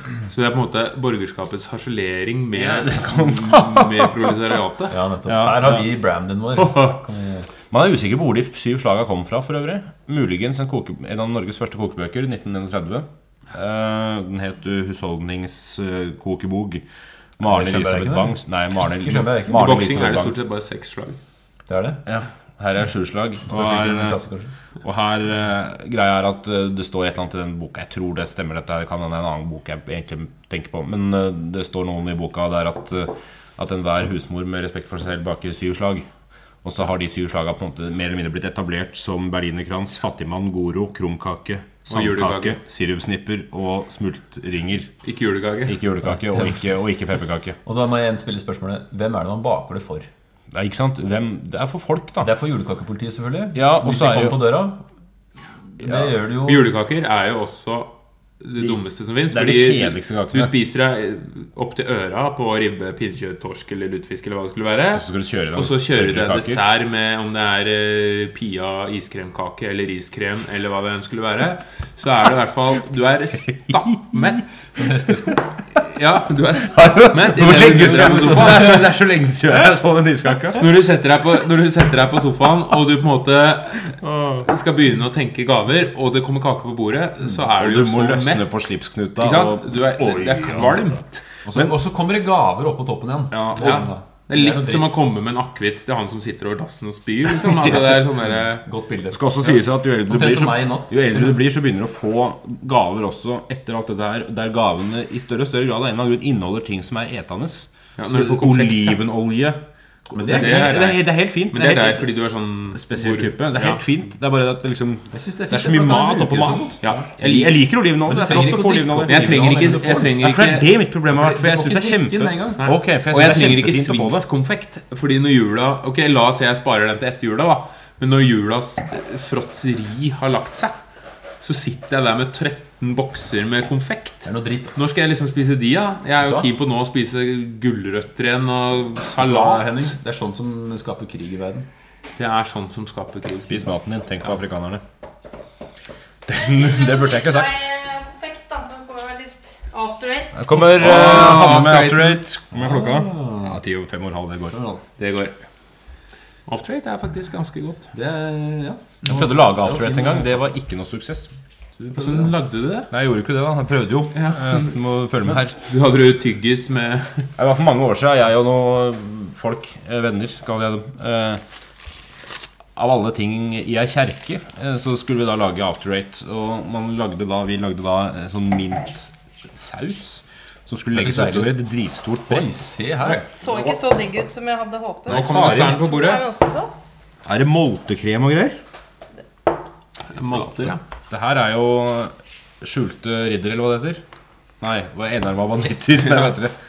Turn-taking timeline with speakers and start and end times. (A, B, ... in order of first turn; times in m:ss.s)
0:00.3-0:05.0 A
0:02.6-0:04.1 B
0:04.9-0:07.5 C
0:05.2-0:05.9 B
0:07.7-0:16.8 B
0:17.4-0:20.3 B
0:17.4-0:19.8 C
0:19.5-0:21.2 A
0:21.7-0:22.0 C
0:22.0-0:24.2 B
0:23.5-0:24.5 C
0:24.8-0:36.0 B
0:36.6-0:44.9 B
0:41.8-0:42.6 A
0:45.0-0:45.8 A
0:45.6-0:47.6 B
0:46.1-0:46.6 C
0:47.6-0:50.1 C
0:50.5-0:52.3 B
0:52.2-0:54.8 C
0:53.5-0:54.4 B
0:55.8-0:56.7 C
0:56.4-1:14.8 A
0:59.3-1:00.5 B
1:04.9-1:06.6 B
1:14.8-1:15.4 C
1:15.7-1:18.9 A
1:16.7-1:20.7 B
1:20.5-1:28.5 A
1:24.0-1:24.5 B
1:27.6-1:30.9 B
1:29.2-1:31.2 A
1:31.4-1:34.9 C
1:33.3-1:33.7 B
1:33.5-1:38.6 A
1:38.6-1:39.2 C
1:39.1-1:49.6 B
1:40.0-1:41.2 C
1:48.0-1:49.0 A
1:50.1-1:50.9 C
1:50.2-1:52.1 B
1:50.2-1:53.8 A
1:52.7-2:04.2 B
1:55.1-1:57.0 C
1:56.8-1:57.6 A
1:58.0-2:00.2 C
1:59.0-2:00.7 A
2:01.1-2:02.7 C
2:02.6-2:10.8 A
2:11.4-2:20.0 A
2:14.2-2:15.0 C
2:16.2-2:16.5 C
2:19.2-2:21.7 C
2:22.2-2:23.7 A
2:23.4-2:24.8 B
2:26.2-2:27.7 B
2:26.3-2:30.4 D
2:30.3-2:34.6 B
2:30.5-2:32.2 A
2:32.5-2:33.6 C
2:34.5-2:34.8 C
2:35.0-2:35.4 A
2:36.5-2:37.9 A
2:37.9-2:40.4 C
2:39.0-2:41.3 B
2:41.8-2:42.3 C
2:41.9-2:42.9 A
2:42.9-2:45.6 B
2:44.1-2:44.7 A
2:45.2-2:47.3 A
2:47.4-2:51.4 B
2:52.8-3:02.5 B
3:00.9-3:01.6 C
3:02.3-3:03.3 C
3:03.2-3:06.7 D
3:05.0-3:05.8 B
3:05.0-3:06.2 A
3:07.2-3:08.6 B
3:10.1-3:10.8 A
3:10.7-3:14.0 B
3:14.6-3:16.6 B